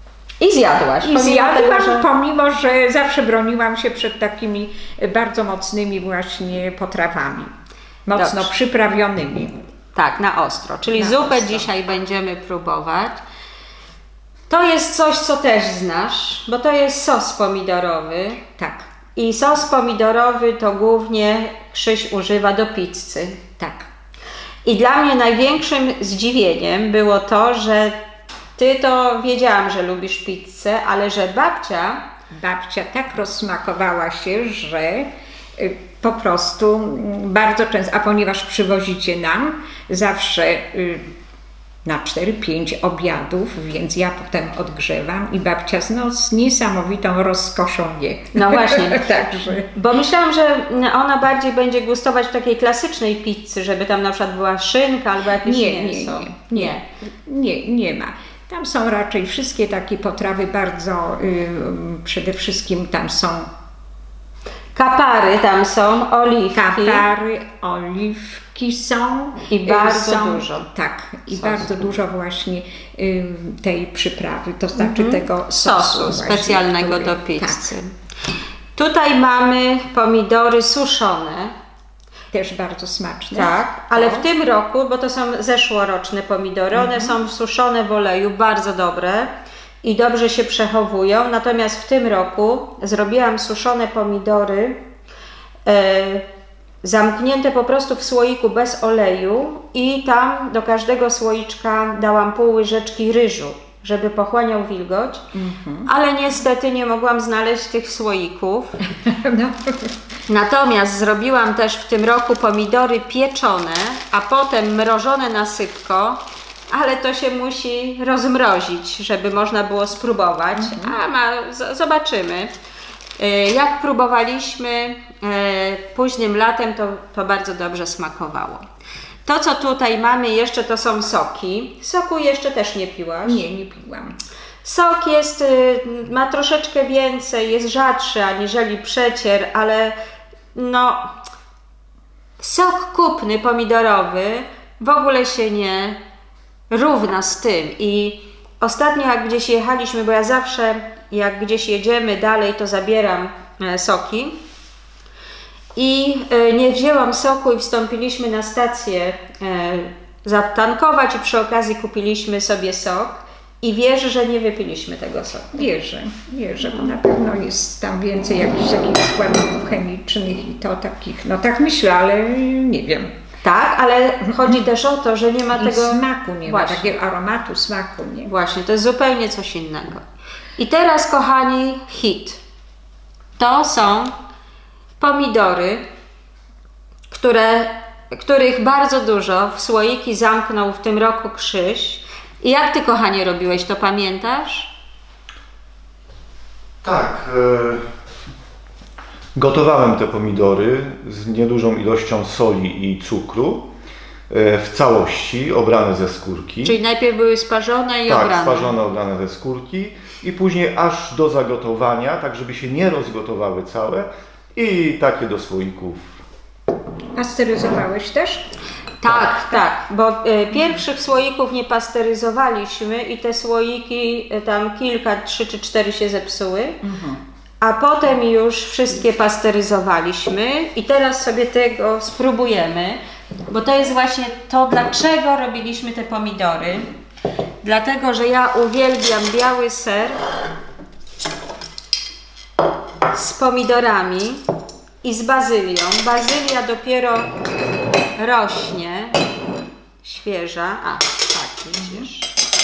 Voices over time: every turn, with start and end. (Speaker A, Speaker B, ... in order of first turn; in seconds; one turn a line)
Speaker A: 0.4-2.1
Speaker B: 1.0-7.5
Speaker B: 8.1-9.6
Speaker A: 8.1-8.5
Speaker A: 9.9-13.2
Speaker B: 10.9-11.7
Speaker A: 14.5-18.4
Speaker B: 18.6-18.9
Speaker A: 19.1-23.4
Speaker B: 23.6-23.9
Speaker A: 24.6-28.0
Speaker A: 28.6-32.0
Speaker B: 32.3-41.1
Speaker B: 41.9-49.7
Speaker A: 48.3-56.8
Speaker B: 55.4-63.5
Speaker A: 64.7-67.0
Speaker B: 66.5-77.7
Speaker A: 69.5-70.7
Speaker A: 71.3-71.7
Speaker A: 74.8-77.9
Speaker A: 78.7-81.5
Speaker B: 82.3-84.2
Speaker A: 83.3-89.3
Speaker B: 86.7-87.2
Speaker A: 89.8-94.8
Speaker A: 95.6-96.2
Speaker A: 96.8-105.2
Speaker B: 105.3-105.9
Speaker A: 105.8-108.8
Speaker B: 108.9-110.0
Speaker A: 110.3-122.5
Speaker B: 120.6-121.0
Speaker A: 123.2-128.6
Speaker A: 129.2-133.4
Speaker B: 133.2-134.1
Speaker A: 134.6-139.9
Speaker A: 140.5-141.1
Speaker A: 142.4-146.0
Speaker A: 146.7-154.4
Speaker A: 155.8-165.6
Speaker B: 165.5-173.1
Speaker A: 173.4-176.9
Speaker B: 174.3-174.6
Speaker B: 175.6-178.3
Speaker A: 178.2-180.0
Speaker A: 180.6-182.4
Speaker A: 183.4-184.1
Speaker A: 185.0-185.8
Speaker A: 187.1-194.7
Speaker C: 196.8-197.8
Speaker C: 199.3-203.7
Speaker C: 204.3-206.8
Speaker A: 206.6-208.7
Speaker C: 208.1-216.1
Speaker B: 217.1-218.4
Speaker A: 219.0-226.8
Speaker B: 226.8-227.2
Speaker A: 227.6-236.9
Speaker A: 237.6-240.2
Speaker A: 243.1-244.4
Speaker A: 245.0-247.3
Speaker A: 248.2-249.2
Speaker A: 250.0-252.3
Speaker B: 251.8-252.1